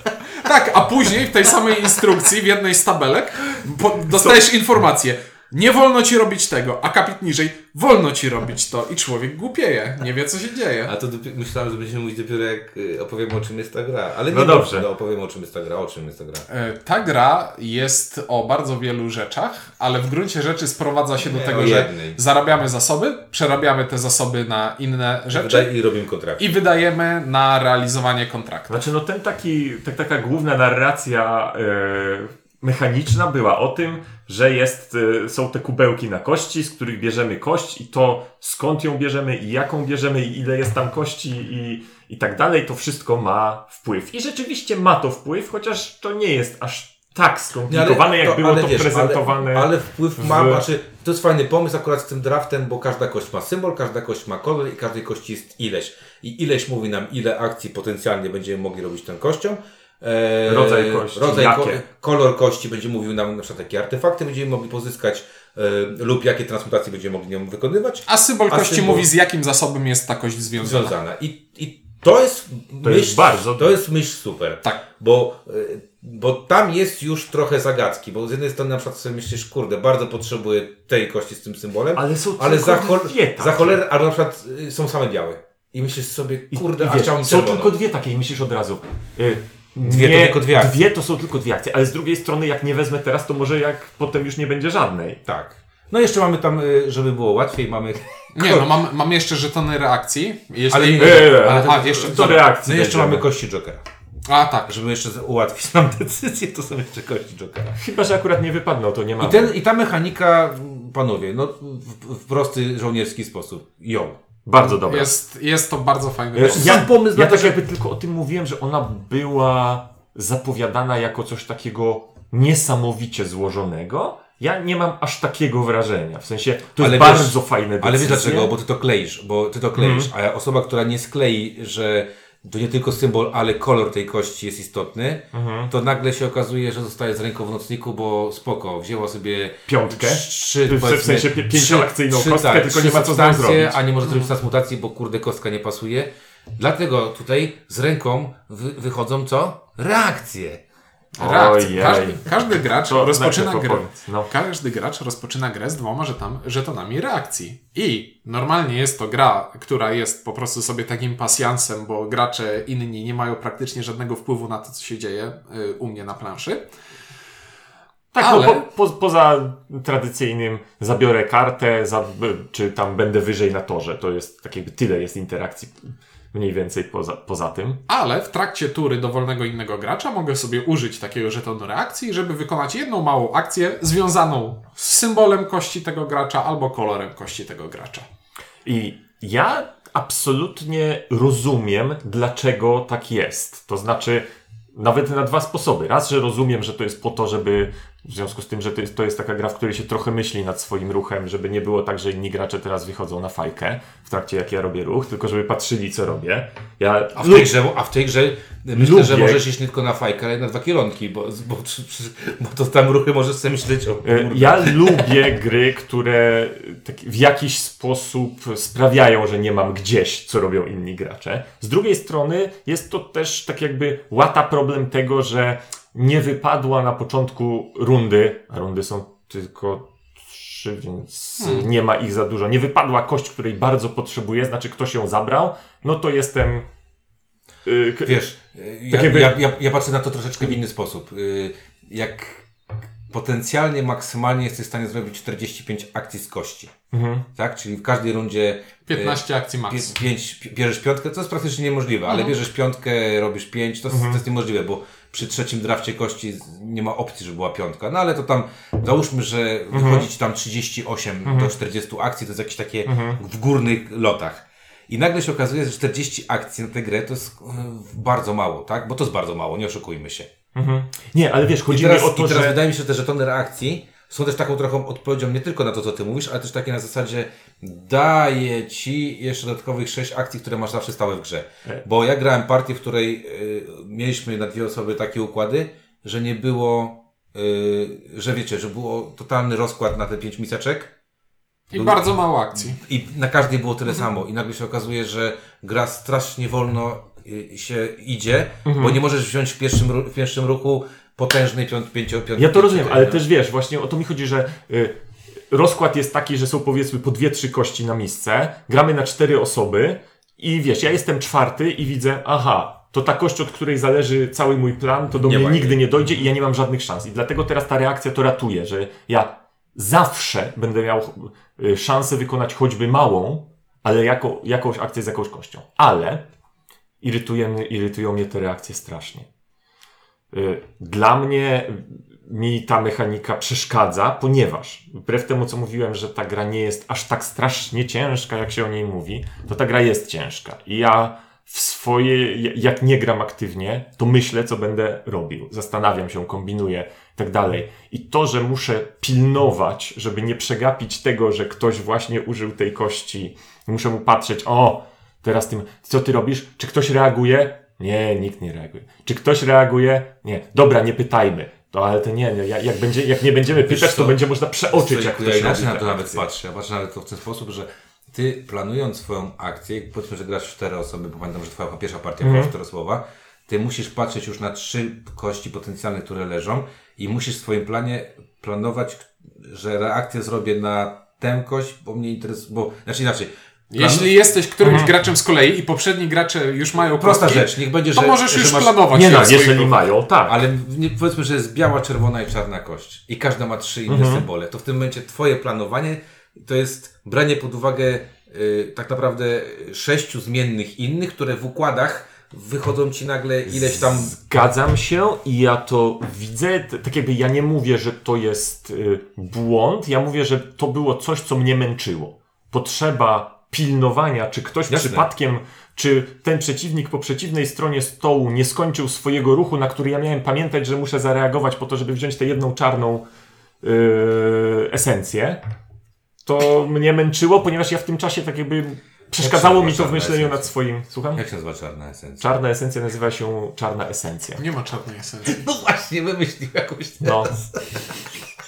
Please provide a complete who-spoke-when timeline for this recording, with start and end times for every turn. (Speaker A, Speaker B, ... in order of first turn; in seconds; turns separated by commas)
Speaker A: 0.4-10.9, Speaker B: 10.8-16.4, Speaker C: 14.3-14.8, Speaker A: 16.5-25.7, Speaker B: 21.2-22.2, Speaker B: 25.3-26.4, Speaker A: 26.4-28.8, Speaker C: 28.7-50.6, Speaker B: 47.7-69.1, Speaker C: 60.5-61.8, Speaker A: 68.1-70.9, Speaker B: 70.6-87.7, Speaker C: 72.8-73.8, Speaker C: 81.9-83.8, Speaker C: 86.5-95.2, Speaker B: 89.8-90.8, Speaker B: 95.2-98.7, Speaker A: 98.3-102.4, Speaker B: 100.7-103.8, Speaker C: 101.0-103.2, Speaker A: 104.3-104.7, Speaker B: 104.7-107.8, Speaker C: 107.8-109.5, Speaker B: 109.2-114.2, Speaker C: 114.5-115.1, Speaker A: 114.5-116.8, Speaker C: 116.3-128.5, Speaker B: 116.4-117.6, Speaker B: 126.8-150.6, Speaker C: 129.7-130.1, Speaker C: 135.3-135.7, Speaker C: 139.7-143.8, Speaker C: 151.2-154.3, Speaker A: 151.2-166.6, Speaker C: 168.1-175.8, Speaker A: 168.2-168.6, Speaker C: 176.3-177.8, Speaker A: 177.9-188.1, Speaker C: 188.6-207.5, Speaker B: 207.1-215.1, Speaker C: 208.8-209.4, Speaker C: 214.0-236.7, Speaker A: 231.4-231.6, Speaker C: 237.6-238.2, Speaker B: 238.0-242.5, Speaker C: 238.9-239.4, Speaker B: 243.1-246.7, Speaker C: 246.9-247.2, Speaker B: 247.3-270.3, Speaker A: 248.9-249.9, Speaker A: 252.1-252.3, Speaker C: 253.9-254.2, Speaker C: 259.7-260.1, Speaker C: 261.2-261.5, Speaker C: 262.9-263.2, Speaker C: 270.5-272.6, Speaker B: 271.7-290.9, Speaker A: 291.7-292.8, Speaker B: 291.7-303.2, Speaker C: 298.6-299.0, Speaker C: 302.4-304.9, Speaker C: 305.5-326.2, Speaker B: 315.2-315.8, Speaker C: 327.0-329.3, Speaker C: 330.3-366.2, Speaker B: 363.6-364.2, Speaker B: 364.7-384.1, Speaker C: 372.2-372.5, Speaker A: 383.7-389.8, Speaker C: 384.6-384.9, Speaker B: 386.9-389.4, Speaker C: 388.9-390.4, Speaker B: 390.2-404.1, Speaker C: 393.9-394.2, Speaker C: 403.5-423.1, Speaker B: 414.7-415.1, Speaker C: 423.6-425.4, Speaker C: 426.2-431.2, Speaker B: 429.2-430.5, Speaker B: 431.1-432.3, Speaker C: 432.2-434.4, Speaker A: 434.4-435.4, Speaker B: 435.2-438.1, Speaker C: 437.0-437.3